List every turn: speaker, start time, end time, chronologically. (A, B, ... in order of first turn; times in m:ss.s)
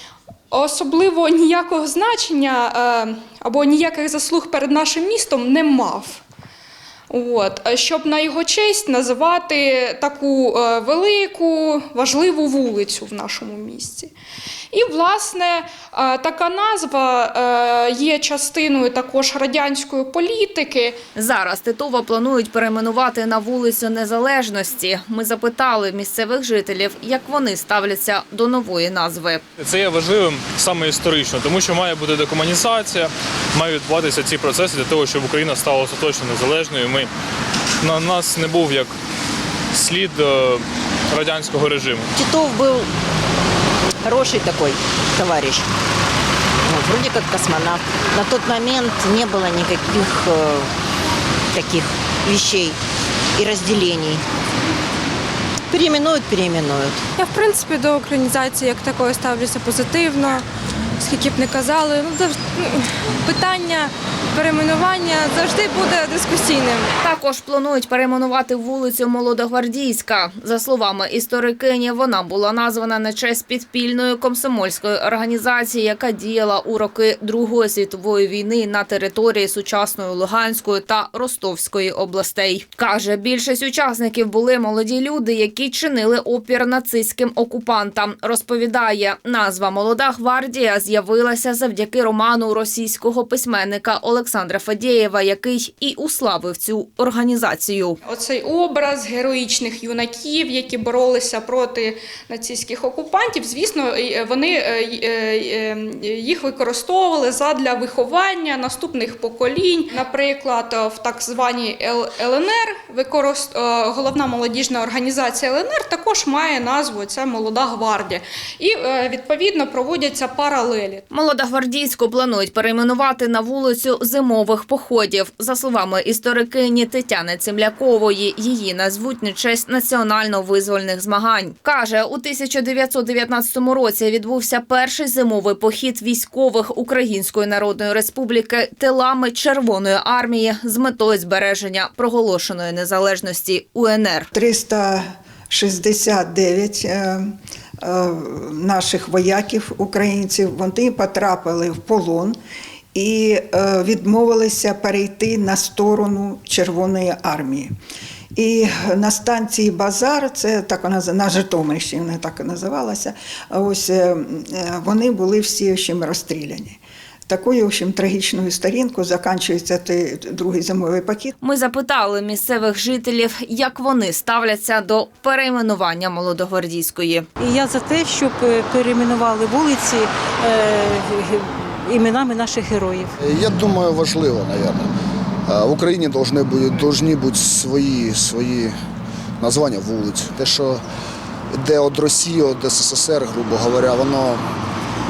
0:00.5-0:06.2 A
0:07.1-0:14.1 A
0:14.7-0:21.0 A
0:21.2-0:29.4 B
0:29.6-0:37.1 C
0:37.8-0:38.9 C
0:39.7-0:42.1 C
0:42.2-0:42.9 D
0:44.0-0:45.7 D
0:46.6-0:50.7 D
0:51.5-0:52.8 D
0:53.4-0:54.2 D
0:55.7-0:57.0 D
0:57.2-1:00.4 E
1:01.0-1:06.9 E
1:07.0-1:38.0 B
1:38.0-2:01.0 A
2:01.1-2:24.3 B
2:24.3-2:32.4 F
2:33.0-2:37.7 F
2:38.4-2:51.3 F
2:51.4-2:57.3 B
2:57.4-3:03.1 G
3:03.2-3:04.9 H
3:05.5-3:08.8 H
3:09.4-3:10.8 H
3:11.5-3:14.4 H